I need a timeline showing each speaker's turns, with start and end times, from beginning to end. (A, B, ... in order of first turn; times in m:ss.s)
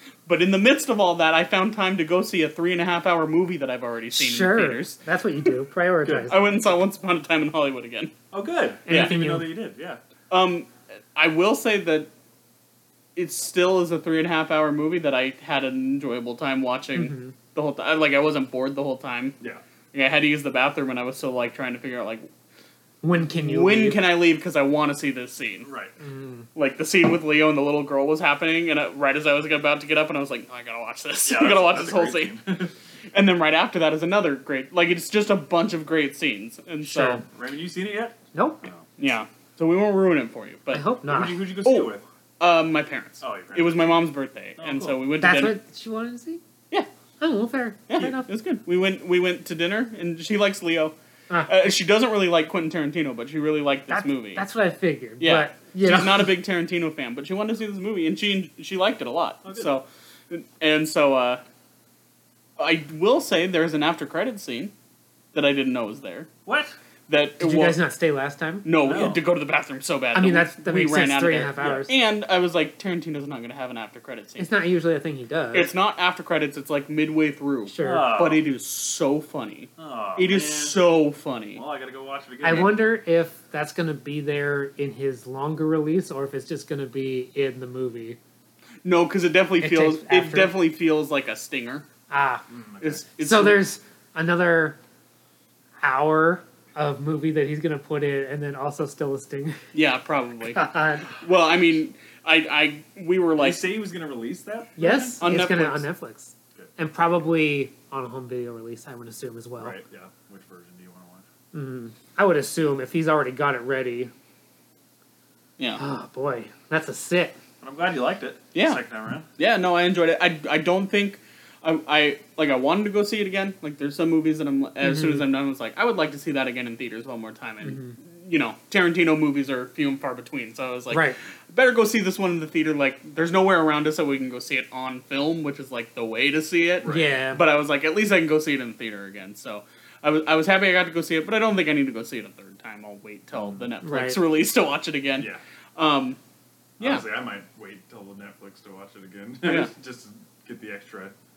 0:00.2-0:05.0 A
0:04.1-0:06.4 B
0:06.0-0:06.3 C
0:06.3-0:08.1 A
0:08.3-0:10.0 C
0:08.9-0:09.5 B
0:08.9-0:09.2 A
0:10.3-0:12.1 A
0:13.2-0:19.4 A
0:16.9-0:17.4 B
0:19.9-0:22.3 A
0:23.0-0:24.0 B
0:23.4-0:25.7 A
0:25.6-0:25.9 C
0:26.0-0:26.5 B
0:26.5-0:32.3 A
0:31.2-0:32.7 C
0:33.1-0:37.2 A
0:36.8-0:37.2 B
0:37.2-0:38.9 C
0:38.3-0:38.6 B
0:39.0-0:40.9 A
0:40.7-0:41.4 B
0:41.0-0:42.0 C
0:41.6-0:45.5 A
0:43.2-0:43.9 C
0:44.6-0:45.0 C
0:45.2-0:46.4 B
0:47.2-0:48.3 B
0:47.9-0:50.9 A
0:51.4-0:54.4 A
0:53.9-0:56.3 B
0:55.2-1:01.4 A
0:59.4-0:59.7 C
1:02.6-1:04.7 A
1:05.3-1:06.3 A
1:06.4-1:06.7 C
1:07.1-1:07.8 A
1:07.4-1:08.6 B
1:08.6-1:14.5 A
1:08.8-1:09.2 C
1:10.1-1:11.9 B
1:11.6-1:11.8 C
1:14.4-1:15.7 B
1:15.5-1:21.6 A
1:17.7-1:18.1 B
1:17.8-1:18.4 C
1:19.8-1:20.8 C
1:21.5-1:22.8 C
1:22.4-1:28.2 B
1:28.8-1:31.8 A
1:29.6-1:30.5 B
1:32.1-1:32.4 B
1:32.5-1:33.0 C
1:32.8-1:33.6 A
1:33.2-1:34.8 B
1:35.8-1:39.6 B
1:39.7-1:40.6 A
1:40.5-1:41.2 B
1:41.2-1:43.6 A
1:43.4-1:45.2 C
1:44.8-1:49.8 B
1:45.2-1:45.9 A
1:49.6-1:51.2 C
1:51.5-1:54.1 B
1:55.8-1:57.4 B
1:57.6-1:59.3 C
1:58.5-1:58.8 A
1:59.4-2:26.2 A
2:04.8-2:05.2 B
2:07.6-2:07.9 B
2:10.9-2:11.2 B
2:16.8-2:17.1 C
2:16.8-2:17.4 B
2:23.3-2:23.7 C
2:23.8-2:24.2 B
2:26.8-2:31.1 C
2:29.4-2:29.7 A